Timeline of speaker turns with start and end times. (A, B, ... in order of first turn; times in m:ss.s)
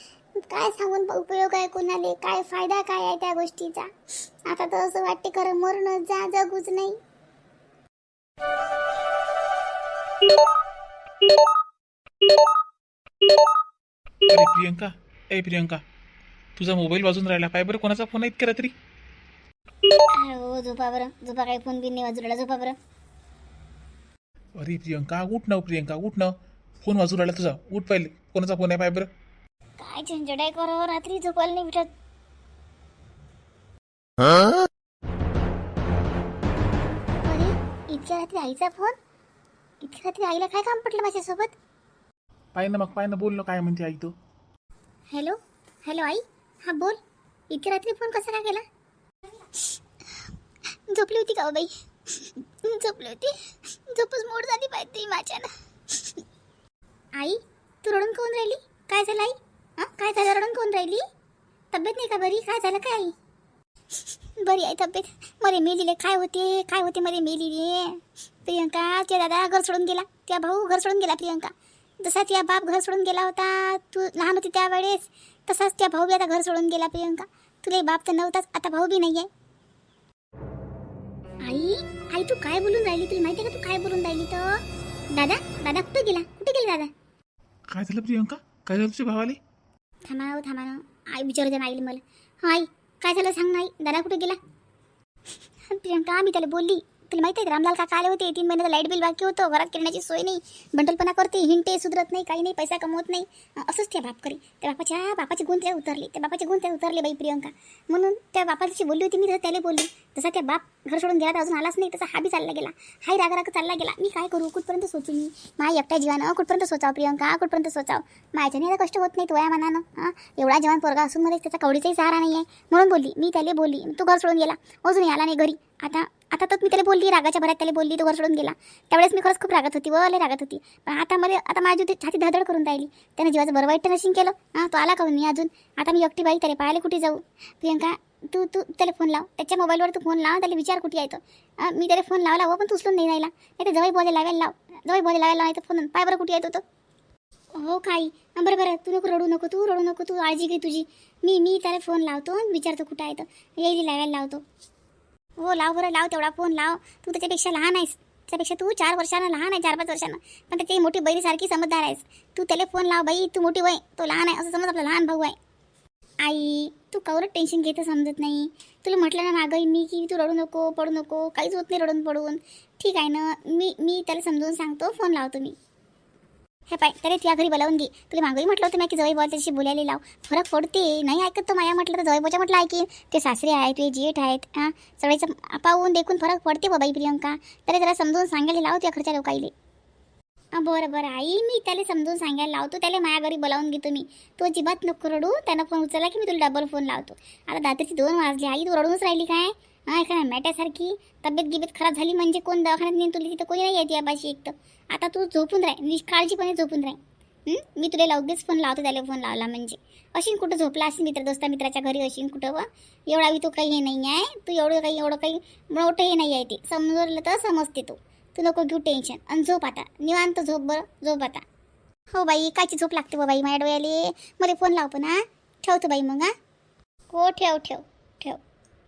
0:00.4-0:03.9 A
0:04.4-0:07.0 A
0:14.3-0:15.8 B
0:16.6-0:18.7 B
0:20.2-0:22.8 A
0:24.6-0:29.1 B
0:29.8-0:31.9 A
0:37.2-0:39.0 A
0:39.8-0:41.5 A
0:42.6-0:44.1 B
0:45.1-0:47.0 A
0:47.5-0:48.6 A
0:50.9-0:56.2 A
0:57.2-1:01.0 A
1:01.7-1:03.1 A
1:04.4-1:19.3 A
1:21.4-1:24.6 A
1:25.1-1:26.9 A
1:27.7-1:29.4 B
1:30.1-1:34.4 A
1:35.7-2:26.6 A
2:27.6-2:34.4 A
2:35.4-2:45.4 A
2:46.2-2:55.6 A
2:56.7-3:09.5 A
3:10.6-3:41.4 A
3:42.1-3:46.3 A
3:47.1-3:48.4 A